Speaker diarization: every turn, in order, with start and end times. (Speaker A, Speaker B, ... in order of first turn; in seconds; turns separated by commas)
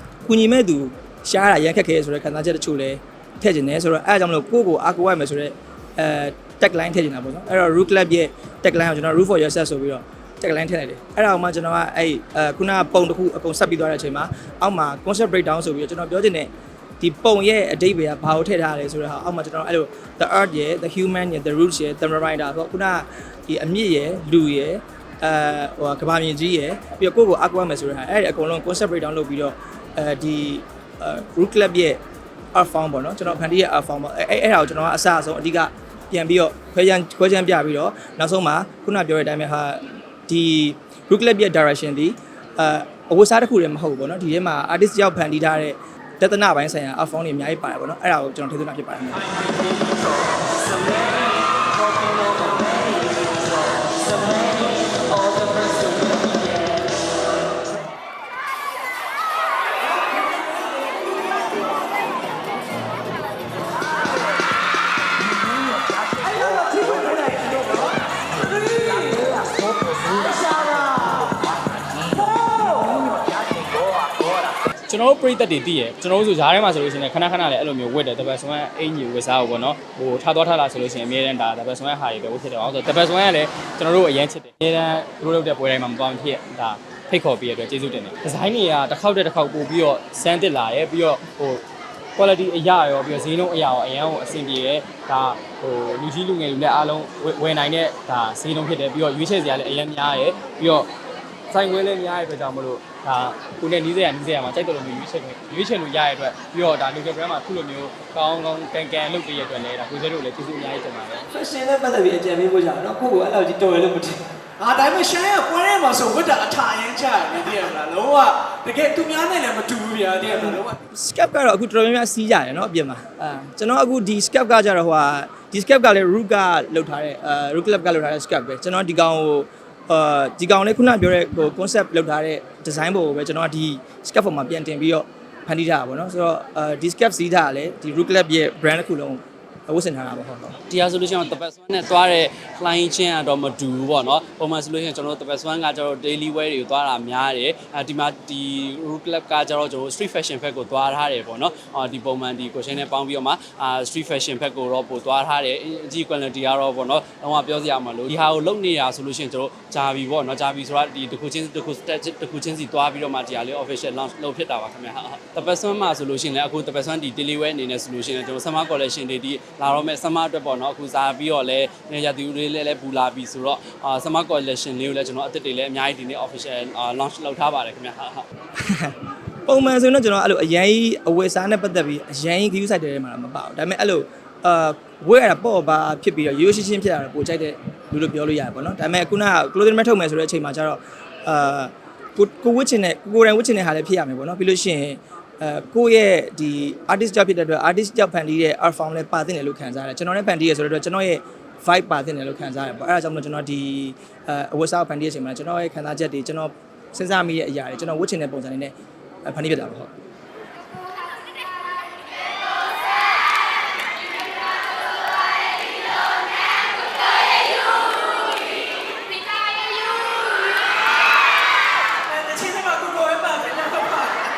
Speaker A: 0.2-32.0, Speaker A: 32.5-49.2, Speaker B: 49.3-49.9, Speaker B: 50.6-56.7, Speaker A: 65.5-67.9, Speaker A: 68.6-71.4, Speaker A: 72.0-74.4, Speaker B: 74.8-91.6, Speaker B: 92.2-100.9, Speaker B: 101.5-111.3, Speaker A: 111.3-114.2, Speaker C: 114.6-120.7, Speaker A: 120.2-140.6, Speaker D: 140.7-178.3, Speaker A: 178.6-208.7, Speaker A: 209.2-209.9, Speaker C: 222.1-224.3